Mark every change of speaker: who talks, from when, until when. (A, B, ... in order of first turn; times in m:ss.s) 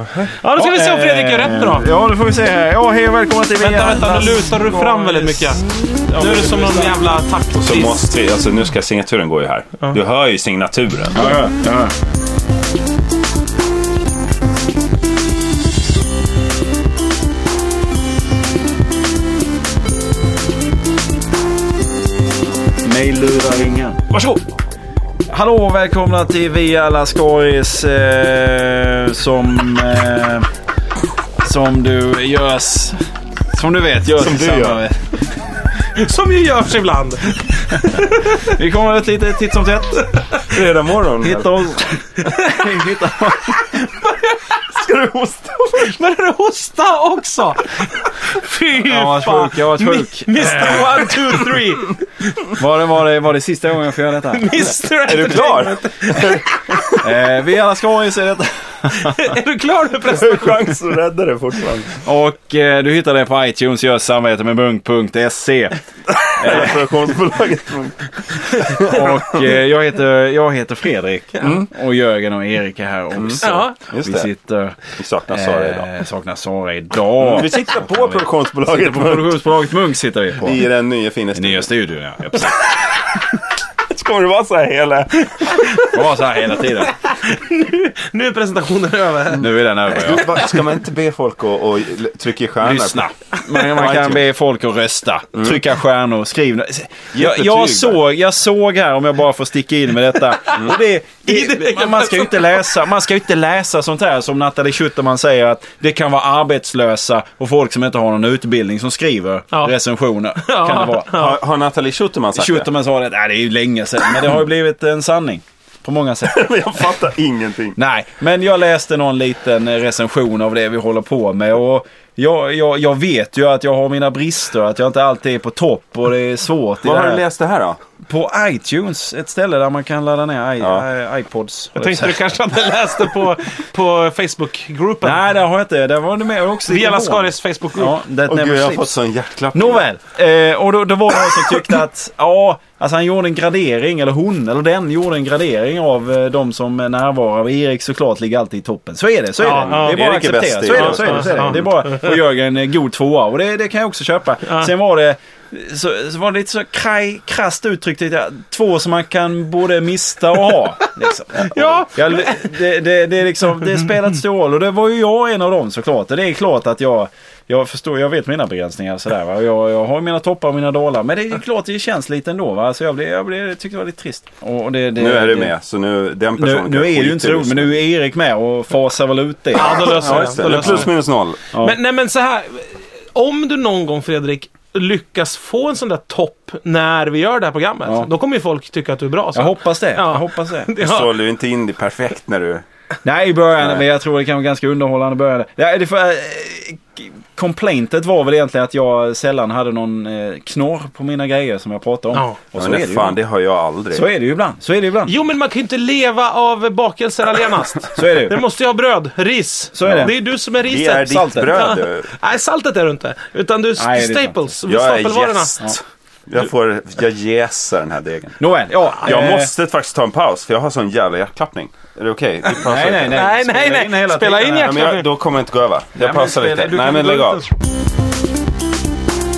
0:00.4-0:01.9 A
0:00.5-0:07.1 B
0:03.6-0:05.6 A
0:06.1-0:08.0 A
0:07.6-0:11.4 C
0:11.1-0:11.9 B
0:22.8-0:24.0 B
0:24.1-0:24.4 A
0:25.3-0:30.5 B
0:31.4-0:33.0 B
0:33.5-0:35.0 B
0:34.2-0:34.8 C
0:35.9-0:38.6 A
0:38.0-0:40.0 B
0:40.2-0:40.4 A
0:40.4-0:41.6 C
0:41.2-0:43.6 B
0:42.2-0:42.8 A
0:43.6-0:44.4 A
0:44.7-0:45.9 C
0:45.8-0:52.0 A
0:48.8-0:51.1 B
0:52.6-0:54.8 B
0:54.3-0:56.8 A
0:55.0-0:57.1 C
0:57.0-0:59.4 B
0:59.0-1:00.8 A
1:00.0-1:02.0 C
1:02.0-1:05.8 B
1:06.1-1:09.5 C
1:06.4-1:06.9 B
1:08.9-1:20.6 B
1:11.4-1:11.7 C
1:13.2-1:14.3 C
1:13.4-1:13.8 A
1:14.9-1:15.9 C
1:17.2-1:19.4 C
1:20.4-1:21.7 C
1:21.3-1:22.7 B
1:23.9-1:26.0 C
1:25.4-1:25.8 A
1:25.9-1:26.9 B
1:26.8-1:29.5 A
1:29.3-1:30.5 B
1:29.9-1:34.2 C
1:32.6-1:51.1 B
1:35.3-1:35.6 C
1:37.1-1:38.0 C
1:40.4-1:40.7 A
1:41.3-1:42.6 A
1:50.4-1:51.4 A
1:51.1-1:52.7 C
1:52.3-1:56.9 B
1:56.2-1:57.8 C
1:57.8-2:07.2 B
2:06.8-2:07.8 C
2:08.1-2:12.2 B
2:10.6-2:10.8 C
2:11.8-2:15.2 A
2:15.0-2:18.9 B
2:16.7-2:18.0 A
2:18.3-2:19.8 C
2:19.5-2:55.5 B
2:29.4-2:30.0 A
2:29.4-2:31.6 C
2:30.7-2:32.2 A
2:41.4-2:42.6 A
2:41.4-2:41.8 C
2:55.0-2:57.7 C
2:56.4-3:00.9 B
2:59.5-3:00.9 A
2:59.7-3:01.4 C
3:01.5-3:01.8 B
3:01.6-3:11.1 A
3:07.8-3:08.1 B
3:09.3-3:10.7 B
3:10.8-3:12.6 C
3:13.0-3:23.2 B
3:22.5-3:24.0 C
3:23.9-3:25.2 B
3:25.0-3:35.6 A
3:28.0-3:28.4 B
3:29.7-3:30.1 B
3:29.8-3:32.1 C
3:31.0-3:31.6 B
3:33.8-3:34.4 B
3:34.7-3:38.4 C
3:38.4-3:39.5 B
3:39.0-3:43.2 C
3:42.6-3:44.7 B
3:43.1-3:45.1 A
3:44.6-3:47.4 C
3:46.0-3:47.5 B